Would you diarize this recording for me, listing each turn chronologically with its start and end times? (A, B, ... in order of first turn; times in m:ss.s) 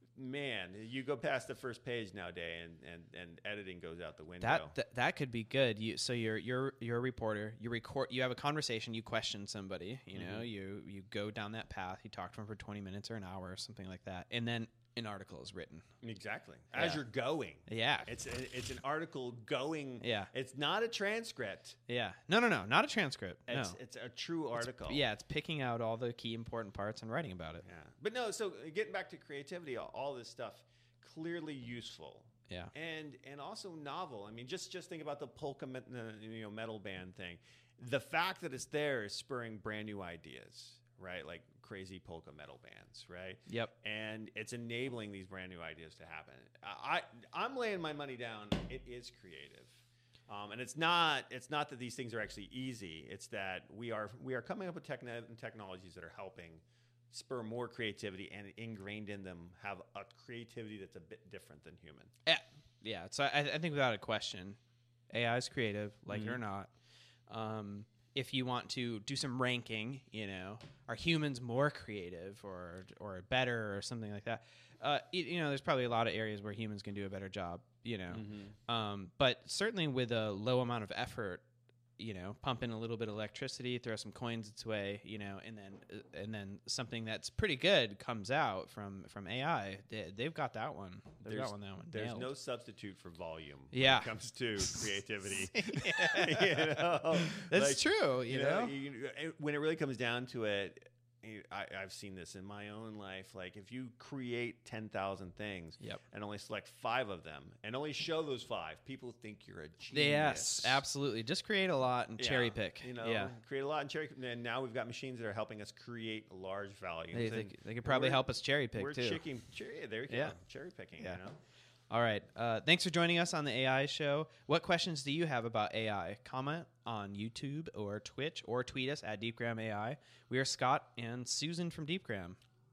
0:00.1-0:04.8 A
0:04.4-0:15.8 B
0:10.1-0:10.5 A
0:16.0-0:21.8 A
0:16.7-0:17.0 B
0:17.7-0:18.1 B
0:20.0-0:20.3 B
0:21.9-0:23.8 B
0:23.5-0:25.0 A
0:24.6-0:27.6 B
0:27.6-1:02.1 A
0:32.5-0:32.7 B
1:02.2-1:04.6 B
1:05.1-1:06.7 B
1:06.1-1:06.4 A
1:07.3-1:21.4 B
1:18.1-1:18.5 A
1:22.0-1:32.3 B
1:31.2-1:50.8 A
1:33.7-1:38.7 B
1:49.9-1:53.3 B
1:52.2-2:01.4 A
1:57.1-1:59.2 B
2:00.1-2:00.4 B
2:01.9-2:12.4 B